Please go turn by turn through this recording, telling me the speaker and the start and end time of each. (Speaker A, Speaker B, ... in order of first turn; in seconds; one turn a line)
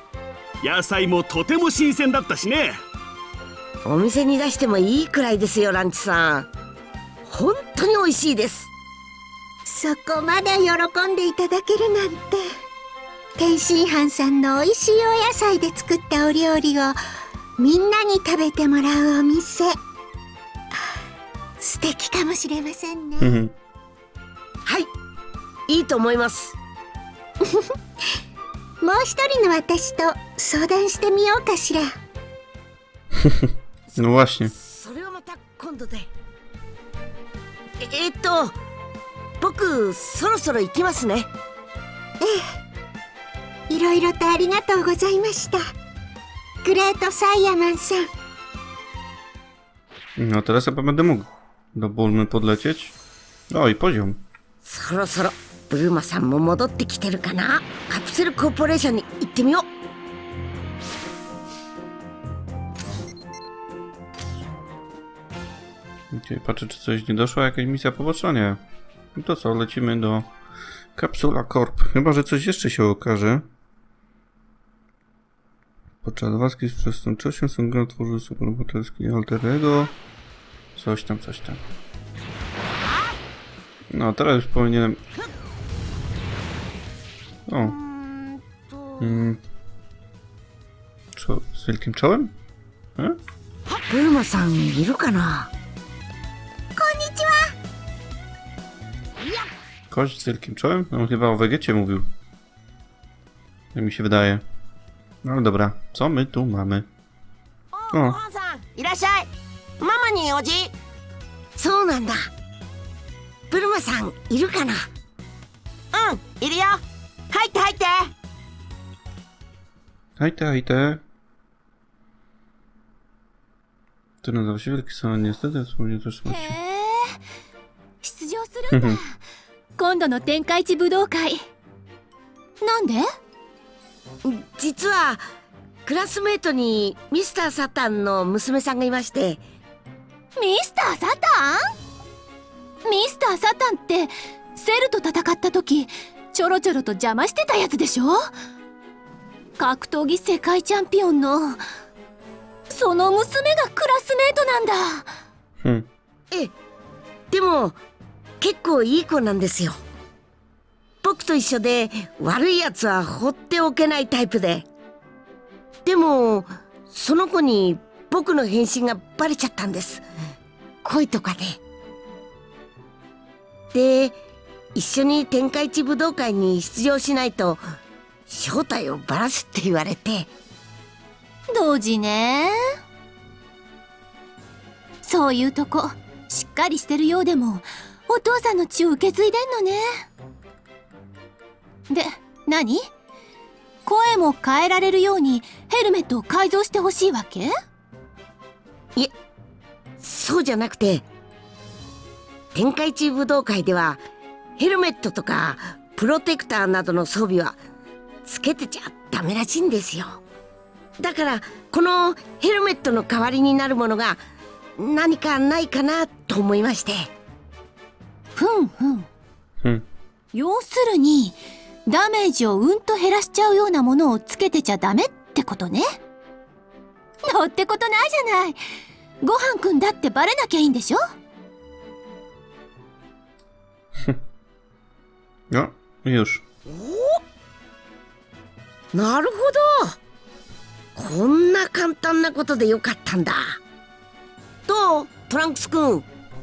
Speaker A: 0.6-2.8
Speaker B: 3.8-6.5
Speaker B: 7.2-8.7
Speaker C: 9.7-12.4
Speaker C: 13.4-17.0
Speaker C: 17.6-19.8
Speaker C: 21.6-23.4
Speaker D: 23.2-23.5
Speaker B: 25.7-26.6
Speaker C: 28.8-31.9
Speaker D: 33.1-34.5
Speaker B: 33.9-36.1
Speaker B: 37.8-38.5
Speaker B: 39.4-41.3
Speaker C: 42.2-42.5
Speaker C: 43.7-45.6
Speaker C: 46.6-48.1
Speaker D: 50.2-53.0
Speaker D: 53.5-54.2
Speaker B: 54.6-59.7
Speaker D: 66.1-68.6
Speaker D: 69.1-70.3
Speaker D: 70.9-73.5
Speaker D: 76.0-79.9
Speaker D: 80.7-81.6
Speaker D: 83.9-85.0
Speaker D: 87.5-87.8
Speaker B: 87.6-89.1
Speaker D: 89.0-89.4
Speaker D: 91.1-92.3
Speaker B: 93.7-95.5
Speaker C: 96.8-97.5
Speaker B: 99.2-99.5
Speaker D: 99.9-102.1
Speaker D: 103.7-104.4
Speaker D: 105.2-106.8
Speaker B: 107.7-110.7
Speaker D: 107.9-108.2
Speaker B: 111.5-112.3
Speaker B: 113.5-114.9
Speaker B: 115.9-118.1
Speaker D: 120.2-121.0
Speaker D: 124.2-126.5
Speaker E: 126.3-127.2
Speaker E: 128.0-129.1
Speaker D: 128.7-129.0
Speaker E: 129.8-131.4
Speaker E: 132.6-133.1
Speaker B: 134.2-135.2
Speaker B: 135.8-139.4
Speaker E: 140.4-141.7
Speaker E: 142.8-148.3
Speaker E: 149.6-151.6
Speaker E: 152.7-155.1
Speaker D: 155.6-155.9
Speaker B: 157.3-157.8
Speaker B: 158.4-159.8
Speaker B: 161.0-164.7
Speaker B: 165.8-170.0
Speaker B: 170.8-171.6
Speaker B: 173.7-174.2
Speaker B: 174.7-177.6
Speaker B: 178.3-180.3
Speaker E: 181.5-182.6
Speaker E: 185.0-190.1
Speaker E: 191.9-192.8
Speaker E: 193.8-197.5
Speaker B: 200.0-201.0
Speaker B: 202.5-204.0
Speaker B: 204.6-207.6
Speaker B: 208.2-210.2
Speaker B: 211.0-214.2
Speaker B: 214.8-217.1
Speaker E: 218.3-219.1
Speaker E: 220.3-225.8
Speaker E: 227.2-228.6
Speaker E: 229.2-231.0
Speaker D: 235.5-236.4
Speaker B: 236.7-237.2
Speaker B: 238.9-239.9
Speaker B: 240.9-243.6
Speaker B: 244.7-246.0